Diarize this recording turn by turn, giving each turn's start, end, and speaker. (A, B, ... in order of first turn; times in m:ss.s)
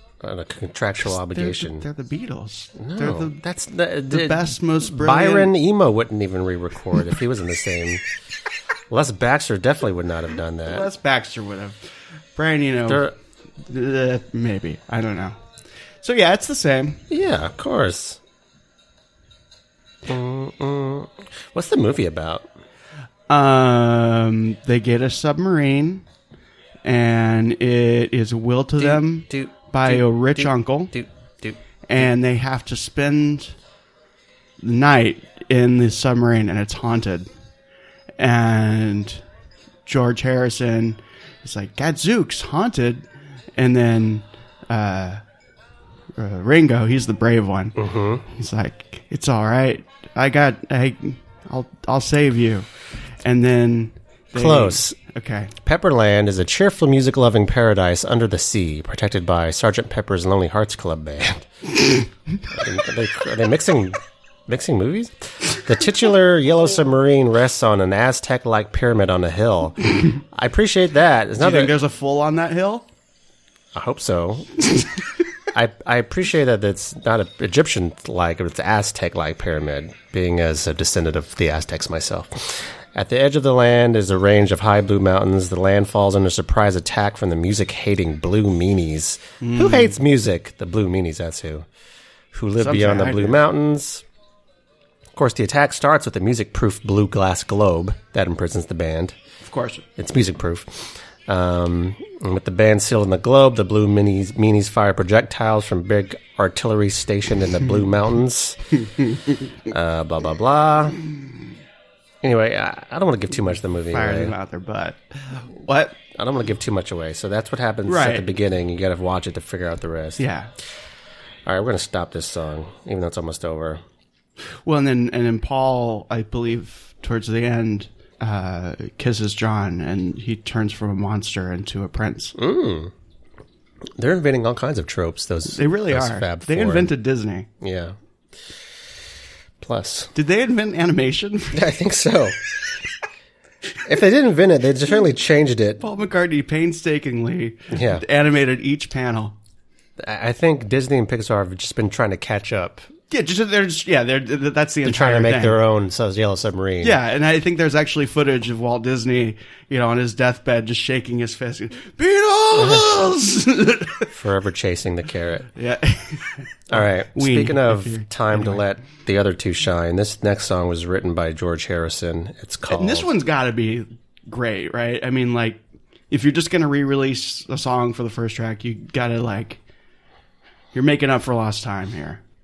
0:00.2-0:01.8 A
0:01.0-0:03.4 B
0:02.8-0:08.0 A
0:04.1-0:05.5 B
0:08.9-0:10.9 A
0:10.7-0:11.8 B
0:12.4-0:13.1 B
0:12.9-0:13.2 A
0:13.6-0:15.4 B
0:16.0-0:17.0 B
0:17.1-0:18.2 A
0:20.1-0:22.5 A
0:23.3-0:26.0 B
0:26.8-0:30.9 B
0:28.8-0:32.1 A
0:31.9-0:33.5 B
0:34.6-0:37.3 B
0:38.2-0:39.2 B
0:39.9-0:45.2 B
0:46.2-0:52.7 B
0:47.8-0:48.2 A
0:53.2-0:55.5 B
0:54.4-0:55.0 A
0:55.6-1:02.0 A
1:02.5-1:11.7 A
1:11.4-1:12.9 B
1:13.8-1:14.9 A
1:15.5-1:31.7 A
1:29.4-1:29.9 B
1:32.3-1:34.0 A
1:32.6-1:33.4 B
1:35.1-1:39.2 A
1:39.4-1:39.9 B
1:40.0-1:48.8 A
1:49.7-1:51.0 A
1:52.2-1:54.3 A
1:53.9-1:56.0 B
1:56.1-2:00.3 A
1:57.9-1:58.3 B
2:00.2-2:00.5 B
2:01.5-2:03.8 A
2:04.7-2:12.4 B
2:12.4-2:12.9 A
2:14.0-2:16.9 A
2:15.5-2:17.5 B
2:17.6-2:18.0 A
2:19.6-2:20.1 A
2:20.2-2:21.7 B
2:21.5-2:22.4 A
2:23.8-2:25.8 A
2:25.8-2:29.4 B
2:27.7-2:28.0 A
2:30.0-2:32.9 A
2:33.1-2:35.6 B
2:34.8-2:37.0 A
2:36.8-2:44.1 B
2:42.6-2:42.9 A
2:44.1-2:45.5 A
2:45.6-2:48.6 B
2:46.7-2:53.1 A
2:52.7-2:59.6 B
3:00.7-3:02.2 B